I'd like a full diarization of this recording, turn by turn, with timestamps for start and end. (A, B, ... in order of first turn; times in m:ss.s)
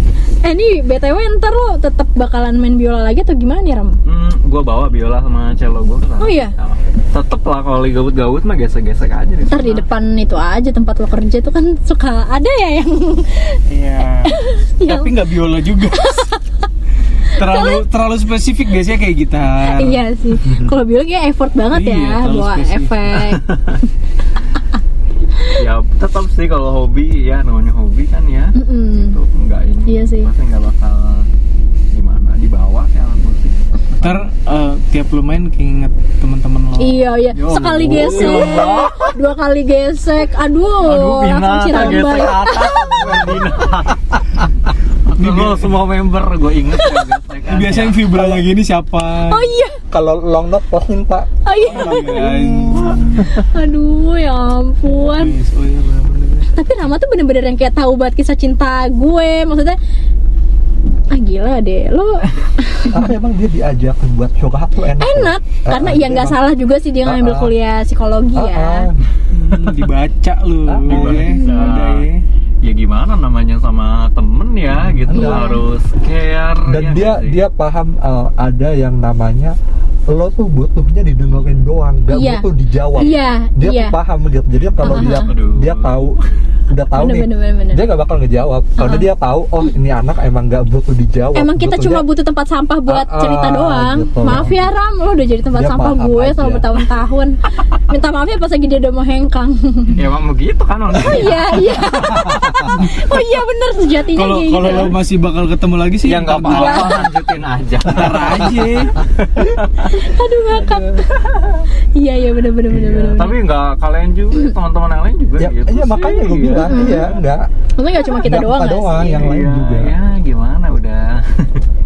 0:00.4-0:04.0 A
0:04.1-0:09.9 B
0:06.2-0:06.5 A
0:09.5-0:13.6 A
0:13.7-0:16.3 C
0:14.2-0:15.2 A
0:15.9-0:16.4 A
0:17.3-0:20.0 C
0:17.4-0:17.8 A
0:19.7-0:23.4 A
0:21.7-0:22.9 C
0:23.3-0:23.8 B
0:25.5-0:31.3 B
0:28.6-0:29.2 A
0:29.9-0:30.3 A
0:31.9-0:34.3 B
0:34.0-0:37.1 C
0:36.8-0:43.3 A
0:37.4-0:39.1 B
0:37.9-0:38.7 C
0:40.8-0:44.1 B
0:45.1-0:48.2 B
0:45.2-0:45.7 C
0:46.8-0:47.0 A
0:47.5-0:49.5 C
0:48.1-0:48.4 D
0:49.3-0:49.8 A
0:49.9-0:51.3 D
0:51.4-0:55.4 A
0:51.6-0:53.3 C
0:54.9-0:56.5 C
0:56.5-0:59.8 A
1:01.1-1:03.1 A
1:02.9-1:06.4 D
1:05.0-1:08.9 A
1:07.0-1:07.5 D
1:08.3-1:09.0 D
1:09.3-1:12.2 C
1:10.7-1:11.4 D
1:10.9-1:12.1 B
1:12.6-1:17.4 B
1:15.0-1:15.5 D
1:15.1-1:15.6 A
1:16.7-1:19.6 D
1:20.1-1:26.2 D
1:22.1-1:24.0 A
1:24.8-1:25.3 A
1:24.8-1:26.1 B
1:26.7-1:32.0 D
1:26.9-1:27.8 A
1:28.8-1:29.1 A
1:31.4-1:37.4 A
1:32.9-1:34.6 D
1:35.5-1:36.6 D
1:37.9-1:40.0 A
1:40.0-1:42.5 B
1:41.0-1:45.0 A
1:42.2-1:42.7 D
1:44.1-1:47.1 C
1:44.6-1:44.9 B
1:46.0-1:50.0 B
1:46.4-1:47.1 A
1:47.8-1:49.0 C
1:49.9-1:51.0 A
1:50.6-1:51.6 B
1:52.0-1:53.4 A
1:52.8-1:57.0 B
1:55.4-1:57.5 D
1:56.6-1:57.1 A
1:57.8-1:59.3 A
1:58.0-1:59.9 D
1:59.0-2:01.6 B